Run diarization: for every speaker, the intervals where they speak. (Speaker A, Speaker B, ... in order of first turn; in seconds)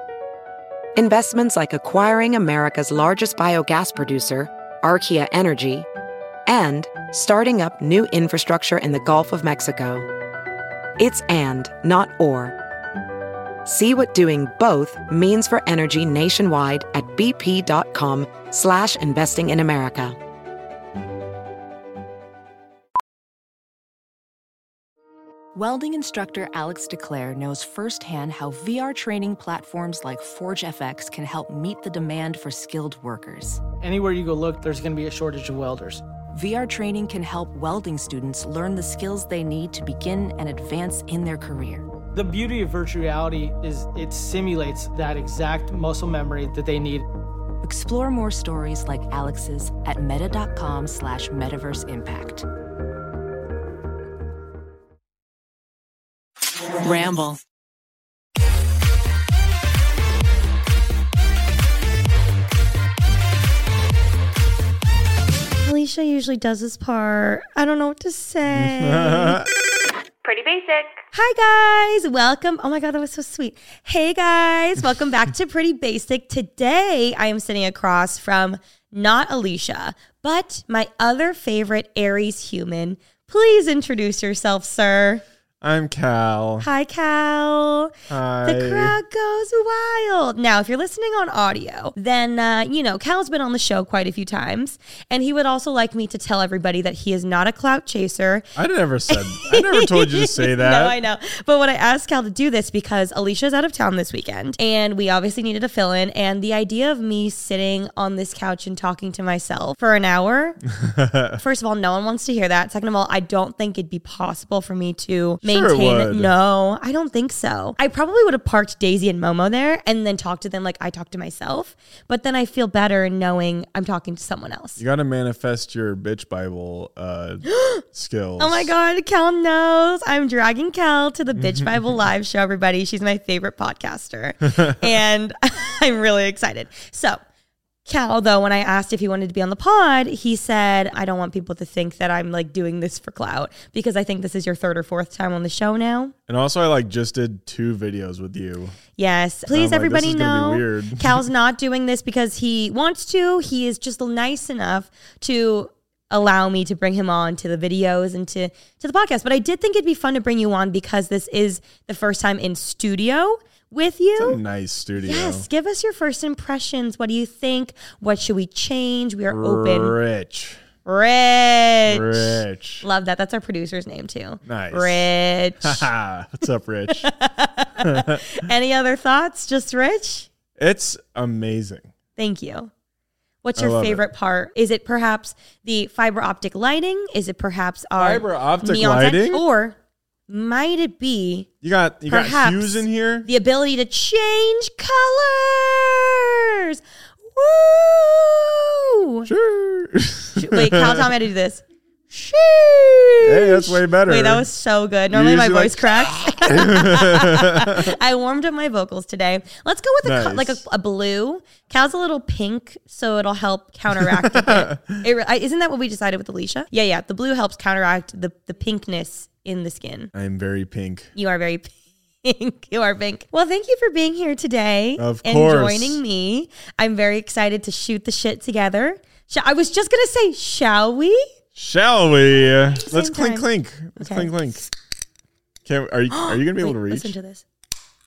Speaker A: 1.0-5.9, 6.5-10.1, 11.0-12.6, 13.7-20.2
Speaker B: 25.6-33.6, 36.3-41.9, 47.6-52.5, 56.8-57.4
Speaker C: 33.8-36.0, 42.1-47.0
Speaker D: 65.6-69.4, 70.3-85.2, 86.6-87.9, 88.5-98.5, 99.1-110.6, 111.4-124.8, 127.5-127.8, 128.4-137.2, 137.9-146.1, 149.0-164.4, 165.0-170.0, 170.8-175.9, 176.9-180.3, 182.2-182.7, 183.4-189.8, 190.3-191.5, 192.1-196.8, 197.3-199.3, 200.4-220.1, 221.2-231.3, 232.4-233.5, 234.0-234.3, 236.1-237.4
Speaker E: 68.5-69.5, 85.6-86.7, 88.1-89.0, 98.6-101.0, 110.7-111.4, 115.4-116.3, 124.8-128.7, 131.4-131.7, 146.3-148.8, 149.5-151.2, 164.2-165.5, 169.3-170.6, 171.9-172.8, 174.5-175.1, 175.6-177.1, 177.8-178.2, 180.6-181.9, 183.6-184.0, 188.0-189.4, 191.6-193.3, 199.3-201.1, 203.2-204.5, 205.1-207.9, 210.0-210.6, 213.9-215.0, 220.1-221.1, 225.0-226.0, 231.6-234.6, 235.7-237.2